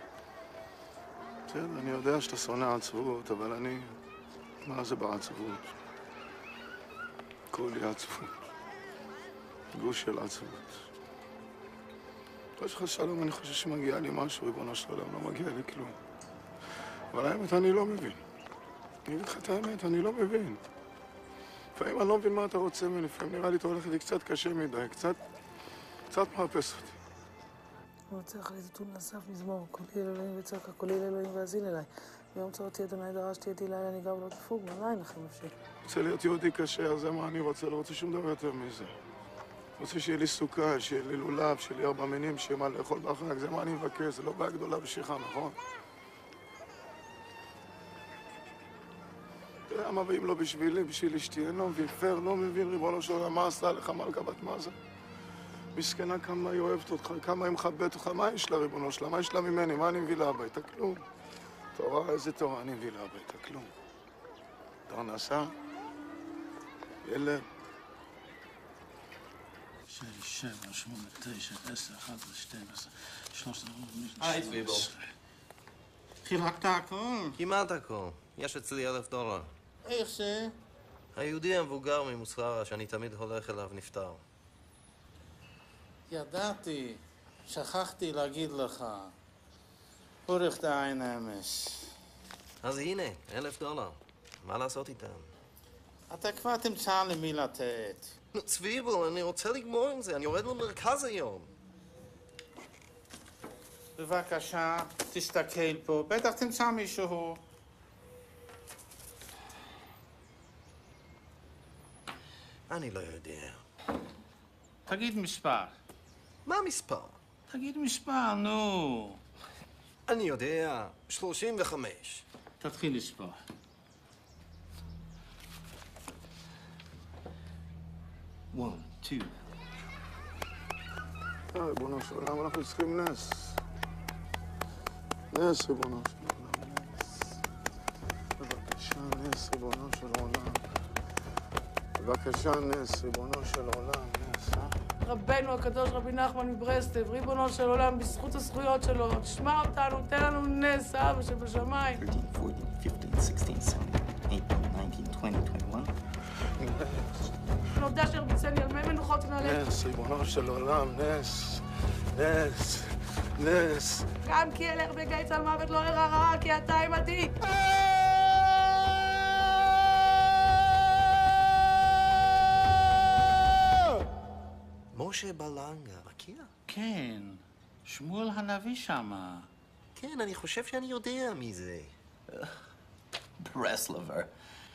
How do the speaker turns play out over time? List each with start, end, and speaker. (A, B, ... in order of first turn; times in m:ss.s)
0:01.5-0:04.0 A
0:04.6-0:05.8 A
0:07.5-0:08.4 A
0:09.7-0:10.9 A
0:12.6-0:16.0 A
0:17.1-0:18.2 A
0:19.0-0:20.6 A
0:21.7-0:25.2 A
0:26.1-0:27.0 A
0:28.1-0:35.5 B
0:35.8-0:39.0 A
0:39.8-0:45.6 A
0:49.7-0:54.8 A
0:55.7-1:01.0 A
1:01.8-1:03.7 A
1:04.9-1:05.6 A
1:07.0-1:07.4 A
1:09.9-1:14.9 C
1:14.2-1:14.9 D
1:16.2-1:17.4 C
1:17.4-1:19.5 D
1:19.8-1:20.6 C
1:21.1-1:24.2 D
1:26.1-1:29.1 C
1:30.2-1:31.9 C
1:32.6-1:35.3 D
1:36.1-1:38.1 C
1:38.3-1:41.5 D
1:44.0-1:47.4 C
1:52.7-1:53.6 D
1:54.9-1:55.8 C
1:56.4-1:57.2 D
1:57.5-1:59.2 C
2:00.1-2:02.2 D
2:02.6-2:03.4 C
2:08.5-2:09.3 E
2:11.5-2:13.6 A
2:15.3-2:17.4 A
2:18.4-2:20.6 A
2:22.0-2:24.7 A
2:25.0-2:32.0 B
2:32.0-2:35.9 E
2:36.6-2:37.2 A
2:37.8-2:39.6 B
2:39.4-2:44.1 A
2:44.2-2:47.3 B
2:54.9-2:56.5 D
2:56.7-2:59.5 C
3:00.0-3:01.9 D
3:03.4-3:04.3 E